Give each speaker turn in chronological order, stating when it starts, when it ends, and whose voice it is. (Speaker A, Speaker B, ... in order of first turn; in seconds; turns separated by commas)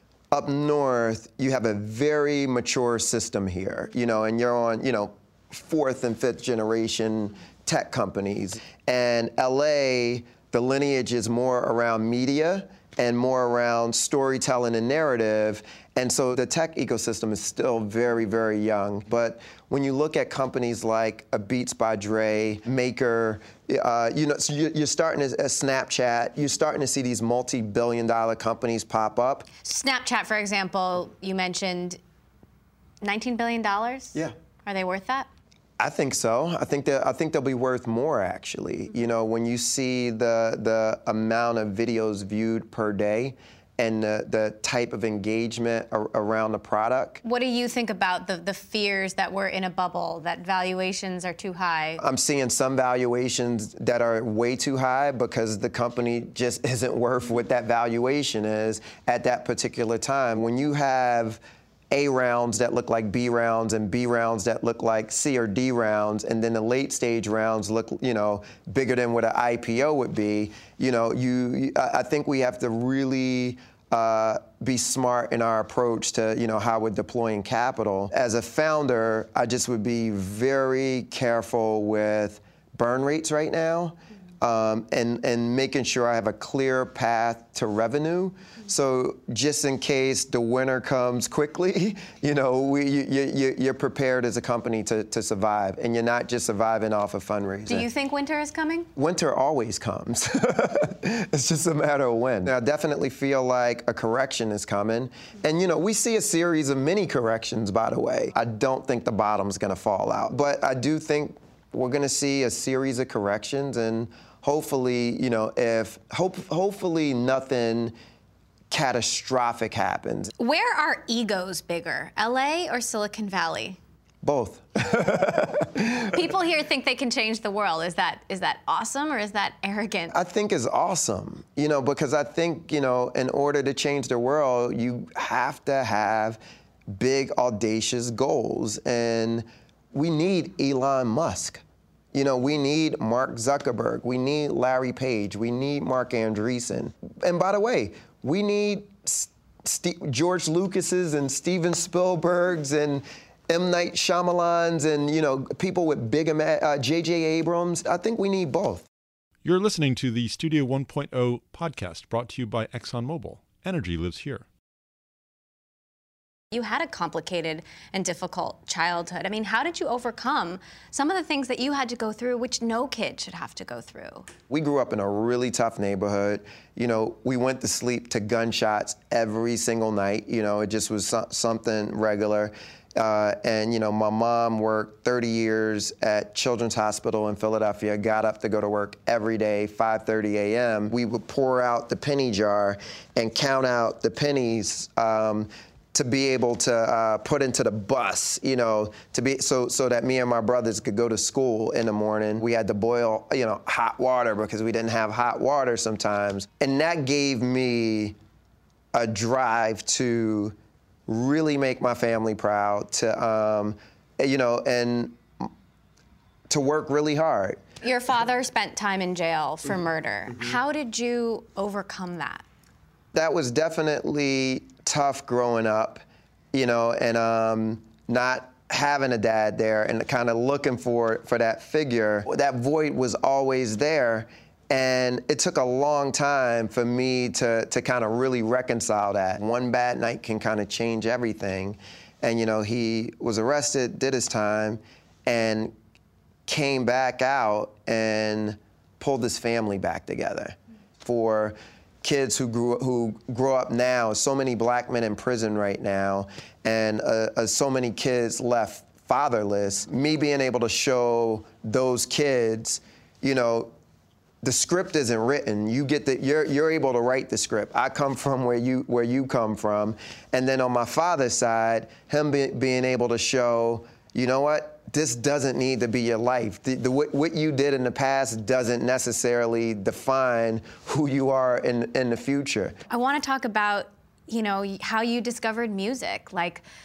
Speaker A: 0.3-29.5, Speaker B: 29.6-32.0, Speaker B: 33.0-35.3, Speaker A: 35.8-47.2, Speaker B: 47.2-52.0, Speaker A: 52.0-61.4, Speaker A: 61.9-97.9, Speaker B: 97.7-98.9, Speaker A: 99.0-117.9, Speaker A: 118.7-120.3, Speaker B: 120.4-123.8, Speaker A: 124.2-126.2, Speaker B: 126.0-130.1, Speaker A: 130.1-141.6, Speaker A: 142.1-158.9, Speaker C: 159.4-164.5, Speaker B: 166.5-174.3, Speaker A: 174.5-208.2, Speaker A: 208.9-210.6, Speaker A: 211.1-215.5, Speaker A: 216.5-217.6, Speaker B: 217.8-222.4, Speaker A: 223.1-245.7, Speaker A: 246.5-263.7, Speaker A: 264.4-282.8, Speaker B: 282.9-286.6